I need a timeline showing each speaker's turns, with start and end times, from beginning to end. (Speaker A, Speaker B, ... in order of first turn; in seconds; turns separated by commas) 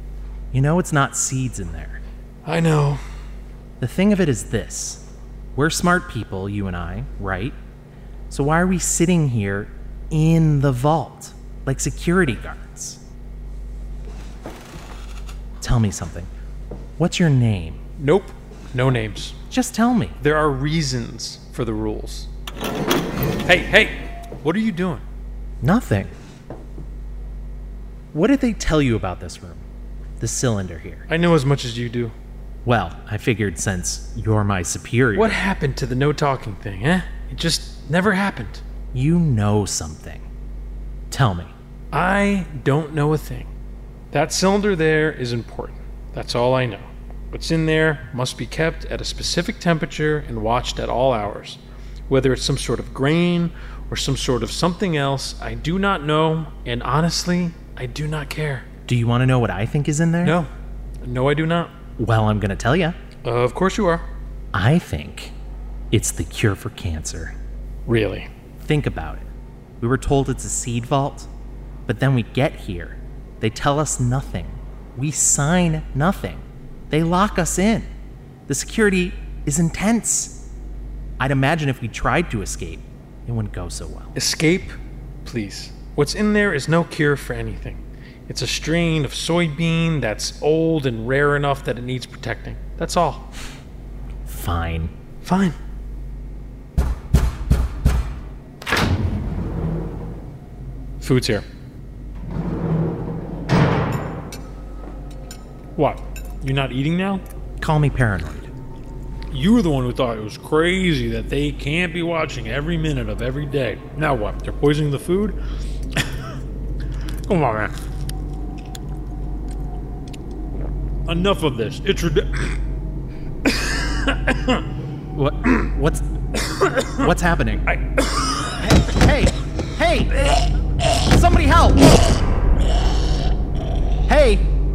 Speaker A: 0.5-2.0, Speaker B: 2.4-3.0, Speaker A: 3.8-5.0, Speaker A: 5.5-7.5, Speaker A: 8.3-13.0, Speaker A: 15.6-16.3, Speaker A: 17.0-17.8, Speaker B: 18.0-19.4, Speaker A: 19.5-20.2, Speaker B: 20.2-22.3, Speaker B: 23.4-25.0, Speaker A: 25.6-26.1, Speaker A: 28.1-29.6, Speaker A: 30.2-31.1, Speaker B: 31.1-32.1, Speaker A: 32.6-35.4, Speaker B: 35.1-38.6, Speaker A: 38.9-40.2, Speaker A: 41.1-41.5, Speaker B: 41.9-43.5, Speaker B: 44.1-58.6, Speaker A: 58.9-60.4, Speaker B: 60.2-60.5, Speaker B: 61.0-61.7, Speaker A: 62.0-63.0, Speaker B: 63.2-64.0, Speaker A: 64.5-65.3, Speaker A: 65.9-67.3, Speaker B: 67.8-68.3, Speaker A: 68.6-69.3, Speaker A: 69.8-71.3, Speaker A: 71.8-77.9, Speaker A: 78.5-80.4, Speaker A: 81.2-84.1, Speaker B: 84.1-93.3, Speaker A: 94.3-94.9, Speaker B: 95.2-95.5, Speaker B: 101.0-101.4, Speaker B: 105.7-107.2, Speaker A: 107.6-108.5, Speaker B: 109.3-115.4, Speaker B: 117.3-117.7, Speaker B: 121.0-122.6, Speaker B: 123.4-124.6, Speaker A: 125.1-126.0, Speaker B: 126.5-127.1, Speaker A: 126.9-127.6, Speaker B: 127.7-128.6, Speaker A: 128.6-130.2, Speaker A: 130.9-131.9, Speaker A: 134.1-134.4